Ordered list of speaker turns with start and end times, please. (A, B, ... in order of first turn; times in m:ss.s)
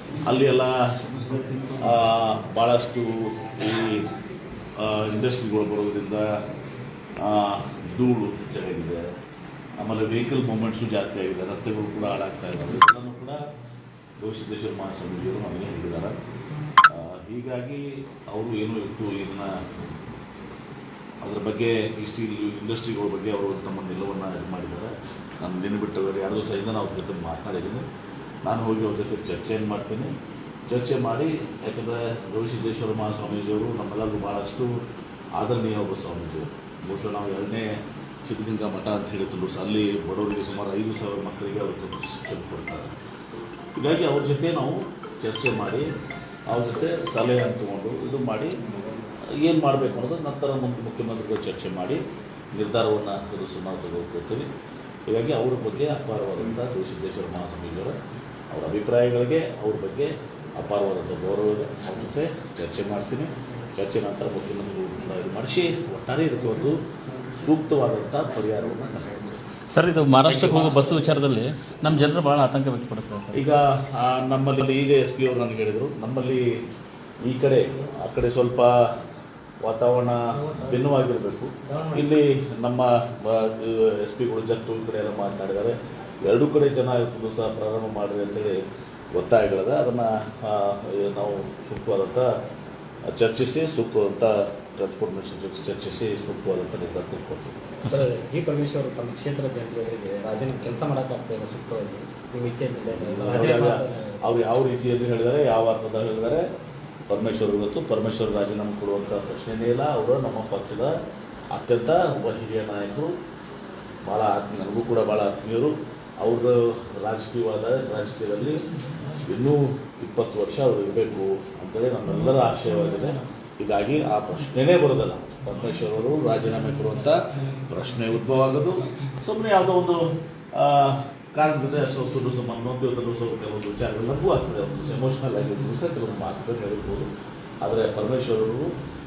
0:00.2-0:00.7 A
0:01.8-0:04.0 A
0:04.8-0:06.2 A
0:07.2-0:09.1 A
0:09.8-0:13.4 A
0:14.2-0:16.2 A
0:16.9-0:19.6 A
0:21.2-0:27.9 A
0:28.4-0:30.1 A
0:30.7-0:34.7 A
0:35.4-0:37.7 A
0:38.3-0:42.9 A
0:43.8-0:45.9 A
0:46.5-0:48.6 A
0:49.4-0:52.0 A
0:52.6-0:54.5 A
0:55.1-0:58.0 A
0:58.5-1:06.8 A
1:07.3-1:09.2 A
1:09.8-1:11.2 B
1:09.8-1:13.3 C
1:10.2-1:11.0 A
1:13.3-1:16.5 A
1:17.2-1:18.7 A
1:19.6-1:28.6 A
1:20.4-1:20.8 B
1:21.6-1:22.1 B
1:29.1-1:32.3 A
1:33.1-1:37.7 A
1:37.8-1:44.4 B
1:42.9-1:46.4 A
1:47.1-1:50.9 A
1:51.5-1:53.1 A
1:54.1-2:17.1 A
2:17.6-2:18.7 A